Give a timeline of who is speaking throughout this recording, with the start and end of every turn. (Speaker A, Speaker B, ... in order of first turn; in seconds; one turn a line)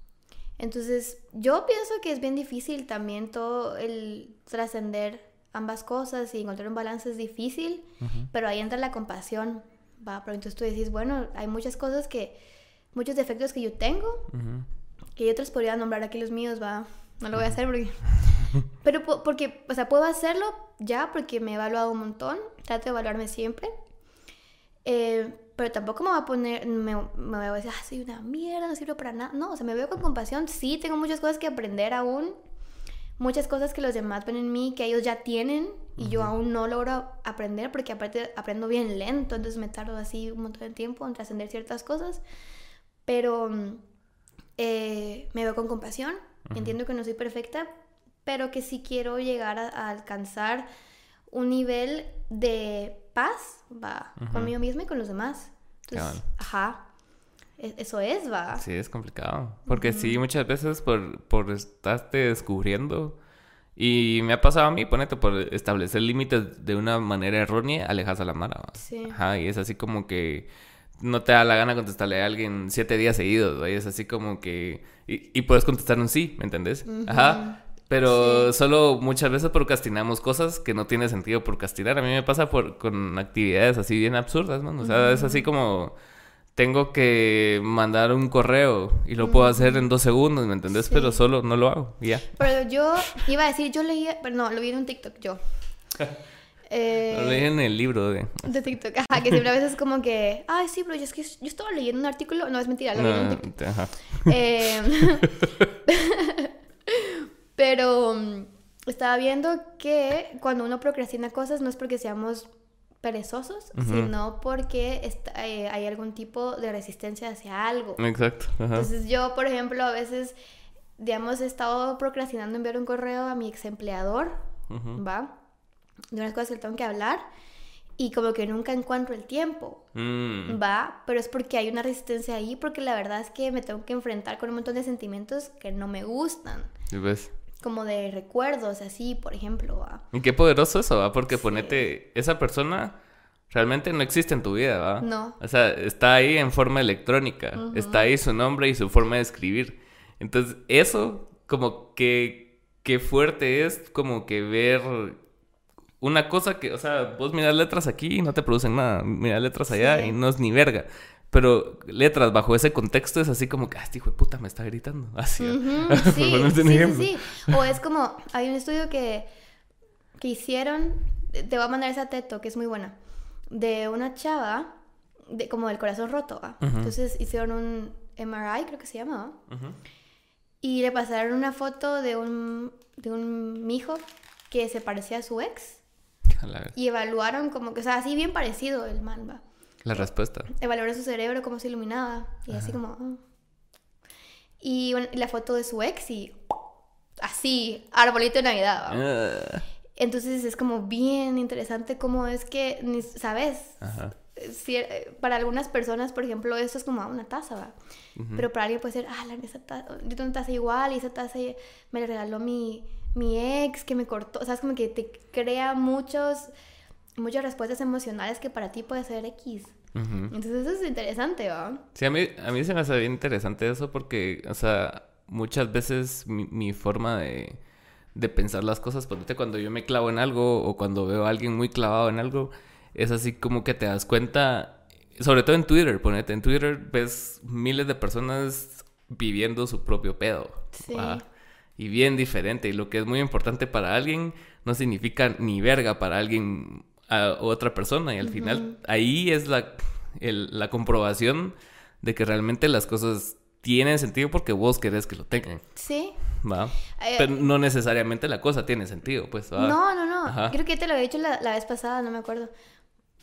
Speaker A: 0.6-12.4
Speaker B: 8.0-8.3
Speaker A: 12.9-14.3
Speaker B: 14.3-14.7
Speaker A: 15.1-23.7
Speaker A: 24.8-32.4
Speaker A: 33.2-42.2
Speaker B: 36.0-36.3
Speaker A: 43.0-43.8
Speaker A: 44.6-47.7
Speaker B: 46.5-46.7
Speaker A: 48.2-50.6
Speaker A: 51.3-56.9
Speaker B: 54.2-54.5
Speaker B: 55.9-56.3
Speaker A: 57.6-58.6
Speaker B: 58.6-63.2
Speaker A: 59.7-60.2
Speaker B: 63.8-85.9
Speaker A: 68.8-69.2
Speaker A: 76.8-78.5
Speaker A: 84.8-85.5
Speaker B: 86.5-92.4
Speaker A: 89.2-89.8
Speaker A: 90.9-91.2
Speaker A: 92.3-95.4
Speaker A: 96.7-97.5
Speaker B: 97.1-98.6
Speaker A: 98.5-112.5
Speaker B: 102.9-104.4
Speaker B: 105.2-105.7
Speaker A: 113.0-118.0
Speaker B: 113.7-114.1
Speaker B: 118.0-118.9
Speaker A: 118.7-120.3
Speaker A: 121.0-124.4
Speaker B: 124.7-125.0
Speaker A: 124.9-125.3
Speaker A: 126.1-127.2
Speaker A: 128.0-129.8
Speaker B: 129.9-130.6
Speaker A: 130.5-136.7
Speaker B: 136.9-137.3
Speaker A: 137.6-140.1
Speaker B: 140.1-142.9
Speaker A: 141.3-141.9
Speaker B: 143.5-155.2
Speaker A: 145.0-145.4
Speaker A: 147.5-148.1
Speaker B: 156.0-167.6
Speaker A: 159.7-160.2
Speaker A: 165.4-169.3
Speaker A: 170.2-172.9
Speaker A: 173.5-174.7
Speaker A: 175.3-179.4
Speaker B: 176.6-176.9
Speaker B: 179.5-179.8
Speaker A: 180.6-185.8
Speaker B: 186.4-186.7
Speaker A: 186.7-193.2
Speaker B: 189.8-190.5
Speaker A: 194.6-196.4
Speaker A: 197.2-199.0
Speaker B: 198.9-199.7
Speaker A: 199.9-207.7
Speaker B: 203.8-204.1
Speaker B: 208.2-208.4
Speaker A: 208.3-216.5
Speaker A: 217.2-219.8
Speaker B: 219.9-220.3
Speaker A: 220.3-221.8
Speaker B: 221.9-227.6
Speaker B: 228.1-241.2
Speaker A: 240.7-241.2
Speaker B: 241.8-255.6
Speaker A: 248.2-248.8
Speaker A: 255.8-256.2
Speaker B: 256.3-260.6
Speaker A: 256.9-257.3
Speaker A: 259.6-262.5